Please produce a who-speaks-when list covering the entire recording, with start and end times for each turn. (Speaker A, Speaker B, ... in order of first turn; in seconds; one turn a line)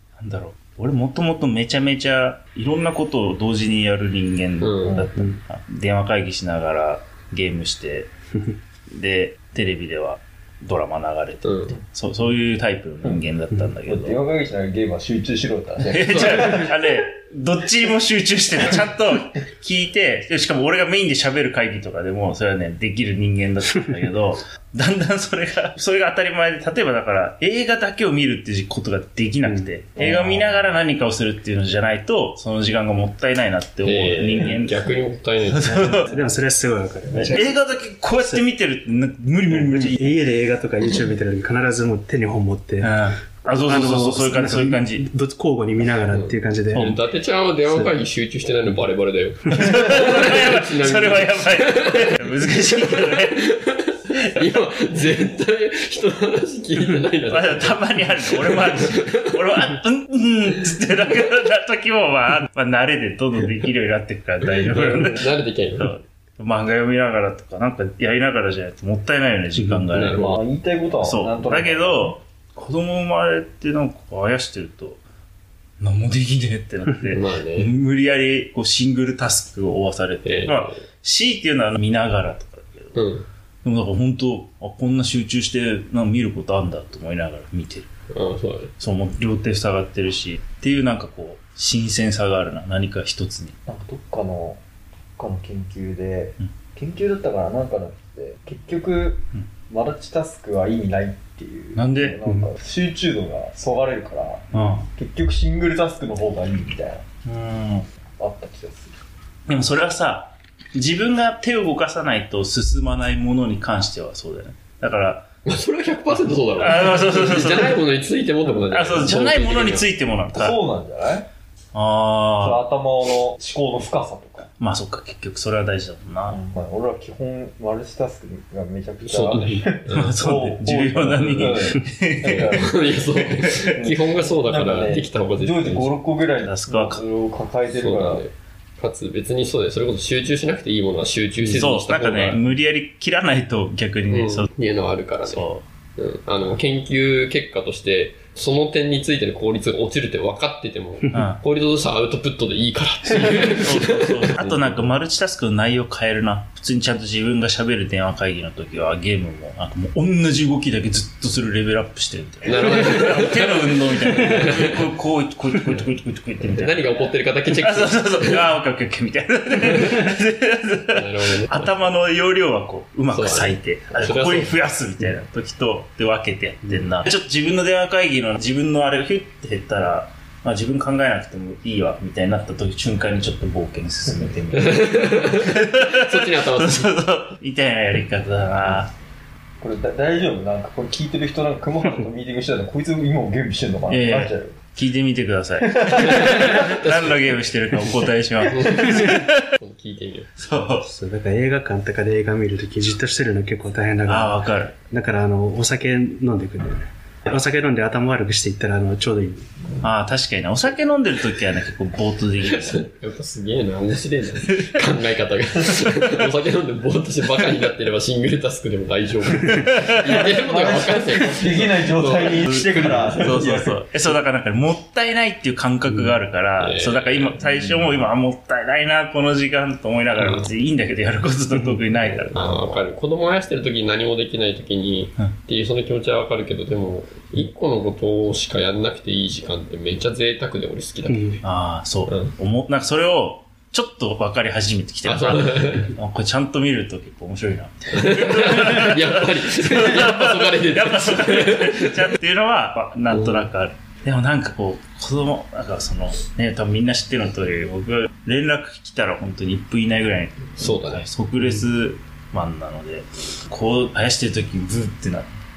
Speaker A: 0.2-8.1
Speaker B: 4.6-5.1
Speaker C: 4.8-5.1
Speaker A: 8.9-14.2
Speaker B: 11.4-11.8
Speaker C: 13.9-16.7
Speaker A: 15.9-34.9
Speaker B: 16.1-16.7
Speaker D: 29.4-29.7
Speaker C: 30.0-30.4
Speaker B: 33.8-36.0
Speaker A: 35.5-36.2
Speaker D: 35.6-37.6
Speaker A: 37.1-40.2
Speaker D: 39.5-46.9
Speaker A: 42.8-45.1
Speaker B: 46.1-59.8
Speaker A: 46.7-47.0
Speaker A: 49.5-53.5
Speaker A: 57.3-70.3
Speaker B: 64.4-65.9
Speaker D: 69.6-69.9
Speaker B: 69.9-70.4
Speaker C: 70.1-72.2
Speaker A: 71.0-75.0
Speaker A: 75.8-83.0
Speaker B: 77.1-77.7
Speaker B: 80.2-80.8
Speaker B: 83.0-83.3
Speaker A: 83.6-87.9
Speaker B: 88.1-88.7
Speaker A: 88.8-93.6
Speaker C: 93.7-94.6
Speaker C: 95.2-107.0
Speaker A: 101.8-102.2
Speaker A: 104.5-104.9
Speaker A: 107.2-107.9
Speaker C: 108.2-109.0
Speaker A: 109.5-115.3
Speaker B: 115.5-119.9
Speaker A: 116.5-117.8
Speaker A: 118.7-120.6
Speaker C: 120.3-121.3
Speaker A: 121.7-122.7
Speaker C: 122.4-124.5
Speaker A: 124.6-126.4
Speaker C: 126.3-138.2
Speaker B: 129.1-130.2
Speaker A: 129.9-133.7
Speaker B: 131.2-131.7
Speaker B: 132.2-136.0
Speaker A: 136.4-137.0
Speaker B: 137.7-142.4
Speaker A: 141.4-144.5
Speaker B: 144.1-154.9
Speaker A: 145.2-145.7
Speaker A: 151.1-151.4
Speaker A: 153.3-188.9
Speaker B: 162.4-164.9
Speaker B: 166.4-168.5
Speaker B: 169.6-170.0
Speaker B: 170.9-171.7
Speaker B: 173.1-174.6
Speaker C: 184.1-184.4
Speaker B: 184.5-186.9
Speaker C: 189.6-194.6
Speaker A: 193.9-199.5
Speaker C: 195.6-196.8
Speaker B: 196.0-197.9
Speaker B: 198.5-200.3
Speaker A: 200.4-200.9
Speaker D: 200.8-209.5
Speaker A: 204.1-204.8
Speaker A: 209.8-212.9
Speaker B: 212.4-223.4
Speaker A: 219.5-220.3
Speaker C: 220.1-223.8
Speaker A: 222.3-232.8
Speaker B: 225.9-228.0
Speaker B: 230.2-230.5
Speaker B: 232.0-241.4
Speaker D: 241.1-241.4
Speaker A: 241.4-265.3
Speaker B: 242.1-242.3
Speaker B: 245.1-245.9
Speaker B: 247.9-252.1
Speaker B: 253.1-253.5
Speaker B: 260.6-261.1